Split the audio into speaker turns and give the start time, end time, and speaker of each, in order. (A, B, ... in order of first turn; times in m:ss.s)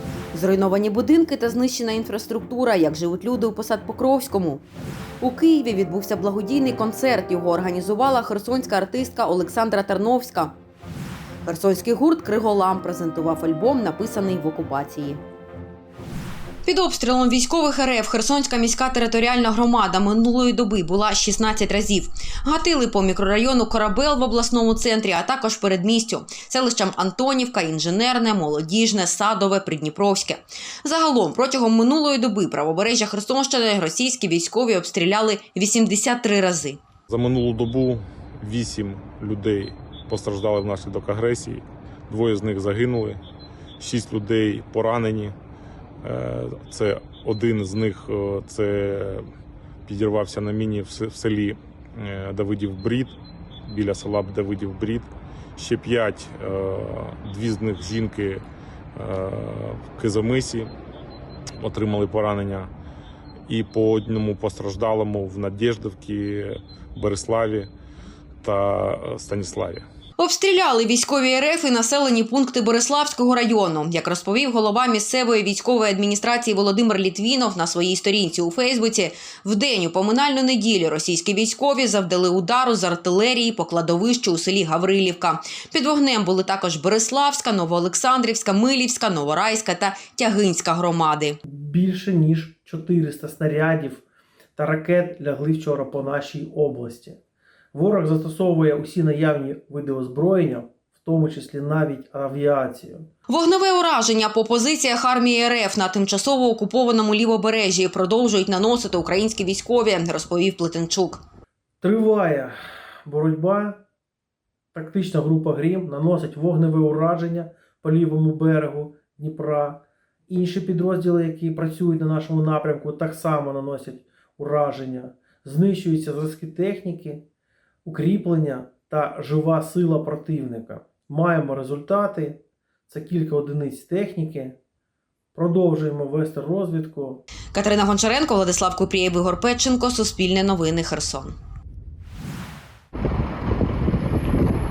0:00.3-0:04.6 A
0:05.2-0:10.5 A
0:11.4-0:15.2 A
0:16.6-0:36.8 A
0:37.1-0:43.2 B
0:43.8-0:45.3 B
0:46.0-0:49.3 B
0:49.8-0:53.2 B
0:53.7-0:58.4 B
0:59.0-1:00.7 B
1:01.6-1:02.7 B
1:03.5-1:07.7 B
1:08.4-1:09.8 B
1:10.2-1:31.4 A
1:31.5-1:34.0 C
1:34.6-1:37.2 C
1:37.7-1:43.0 C
1:43.3-1:51.2 A
1:51.8-1:52.5 C
1:53.1-1:53.8 C
1:54.7-2:07.2 C
2:07.8-2:14.6 C
2:15.4-2:17.2 C
2:17.5-2:21.4 A